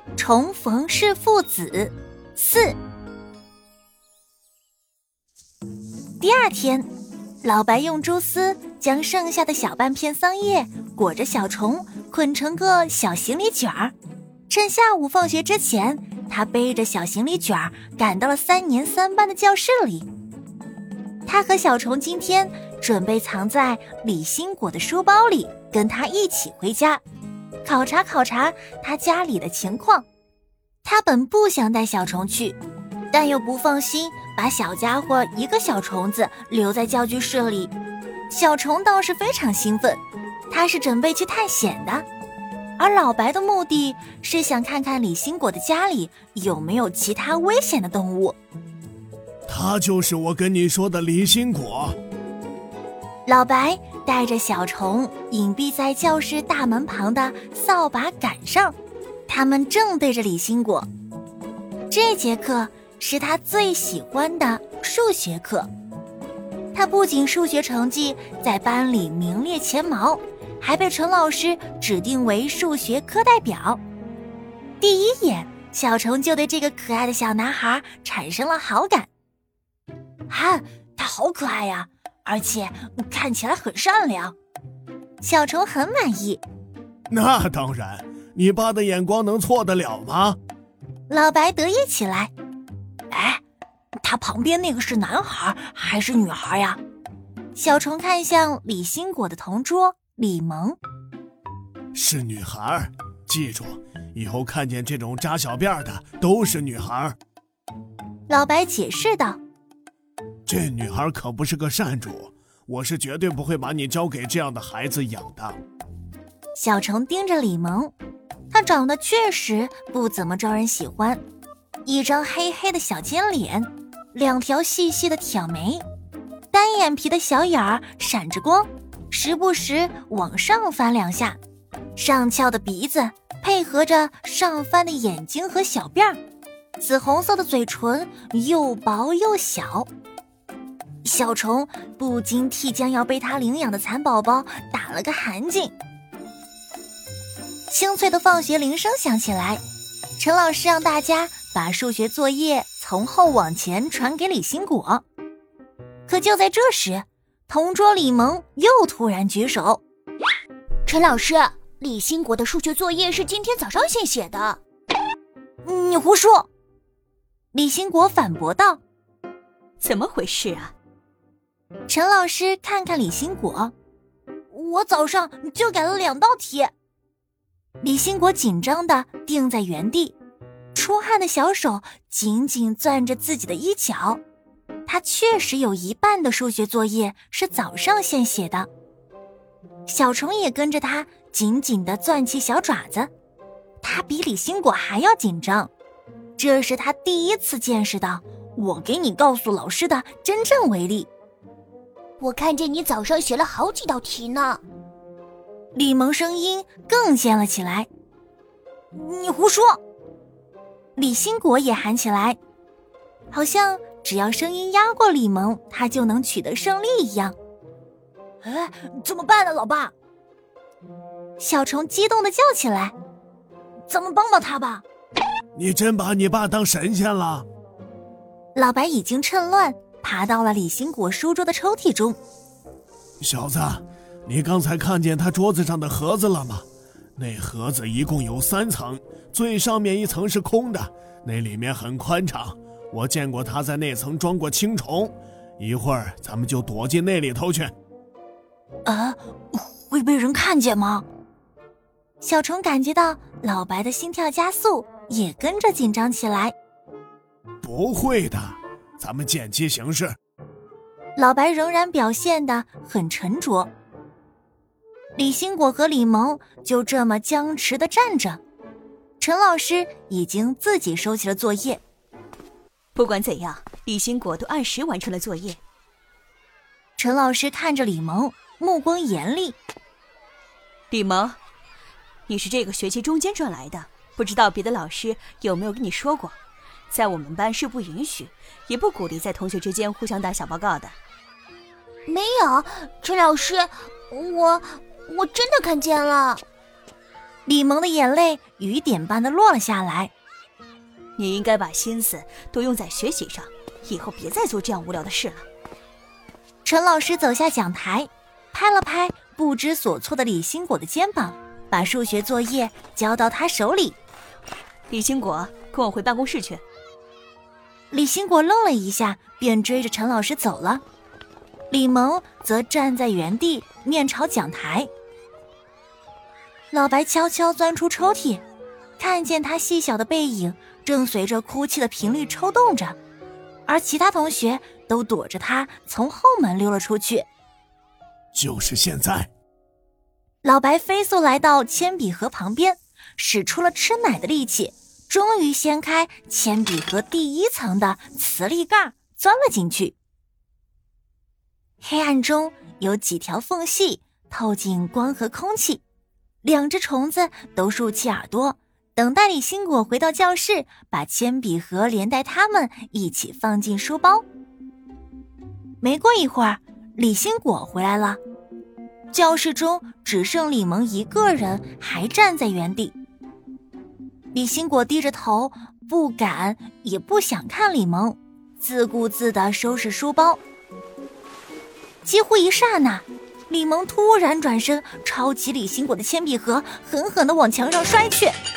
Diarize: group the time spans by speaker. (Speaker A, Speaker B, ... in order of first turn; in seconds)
Speaker A: 0.2-2.8, 6.2-6.9, 7.4-13.9, 14.5-20.1, 21.3-27.0, 27.6-30.1, 30.8-32.6, 33.1-37.7, 38.3-42.1, 42.8-48.4, 53.3-58.8, 59.3-60.9, 61.9-65.7, 66.7-73.8, 74.8-79.1, 80.3-84.3, 85.2-86.4, 91.1-92.3, 93.1-93.4, 94.0-96.8, 97.5-100.8, 108.3-109.4, 116.6-117.9, 118.5-121.2, 121.9-125.8, 126.5-131.4, 132.0-136.2, 136.8-139.9, 141.0-145.7, 147.7-149.6, 150.2-155.0, 156.1-159.8, 165.6-166.5, 167.5-168.8, 171.9-173.7, 174.5-176.7, 177.8-180.2, 180.7-184.2, 184.9-188.7, 189.9-193.1, 193.8-195.7, 196.4-201.1, 205.7-207.9, 208.9-209.8, 211.0-212.4, 213.3-217.3, 218.4-219.9, 221.4-222.9, 223.9-224.8, 228.6-232.2, 248.9-251.1, 252.2-256.6, 261.2-263.7, 265.2-268.4, 269.2-271.8, 277.0-279.6, 297.5-300.1, 306.6-314.0, 317.9-320.8, 321.7-324.9, 326.7-328.4, 329.0-333.0, 333.7-337.3, 340.4-349.9, 351.8-355.8, 356.4-364.2, 365.8-368.2, 369.1-372.9, 374.3-380.4, 382.0-388.4
Speaker B: 49.5-52.0, 87.1-90.4, 101.9-107.2, 110.5-115.6, 225.6-227.5, 233.2-236.7, 237.2-247.7, 257.6-260.2, 338.3-339.3
Speaker C: 160.9-164.6, 202.2-204.6, 292.1-296.4
Speaker D: 169.8-170.7, 272.9-275.6, 280.9-281.4, 282.3-286.4, 286.9-290.9, 301.2-305.4, 314.9-316.6